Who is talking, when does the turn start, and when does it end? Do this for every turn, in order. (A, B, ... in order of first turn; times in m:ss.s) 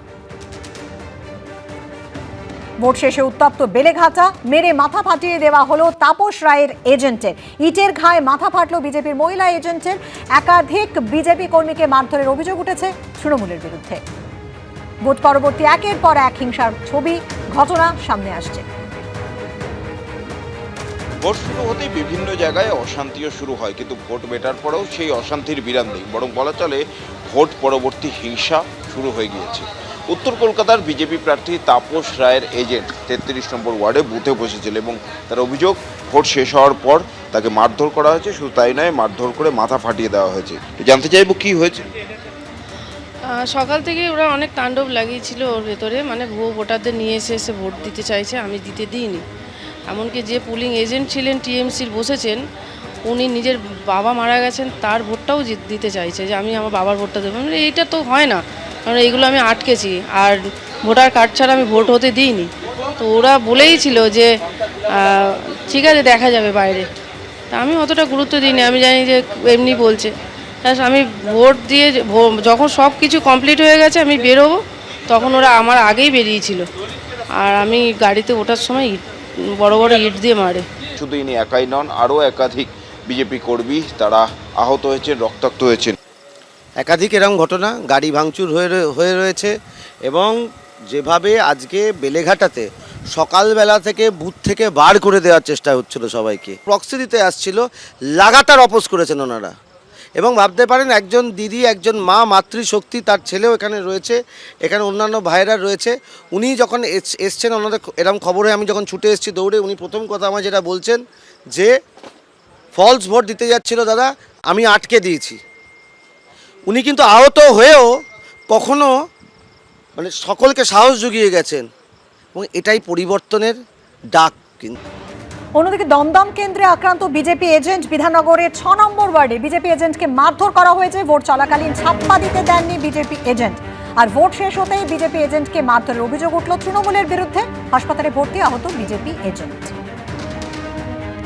0:02.8-0:14.0 A
0:15.0-0:18.6 A
0:21.2-0:41.8 B
0:43.3-0:49.2 C
0:49.9-0:52.4 C
0:53.0-1:04.3 C
1:04.9-1:06.9 C
1:07.5-1:10.1 C
1:10.6-1:14.6 C
1:15.1-1:16.6 C
1:17.4-1:19.0 C
1:19.6-1:20.6 C
1:21.0-1:26.0 B
1:26.8-1:29.5 D
1:30.1-1:30.4 D
1:30.9-1:37.6 D
1:38.2-1:39.5 D
1:40.2-1:51.0 D
1:52.8-1:55.4 D
1:56.7-1:57.9 D
1:58.5-1:58.9 D
2:00.0-2:01.6 D
2:02.3-2:03.6 D
2:04.1-2:04.8 D
2:05.6-2:19.8 A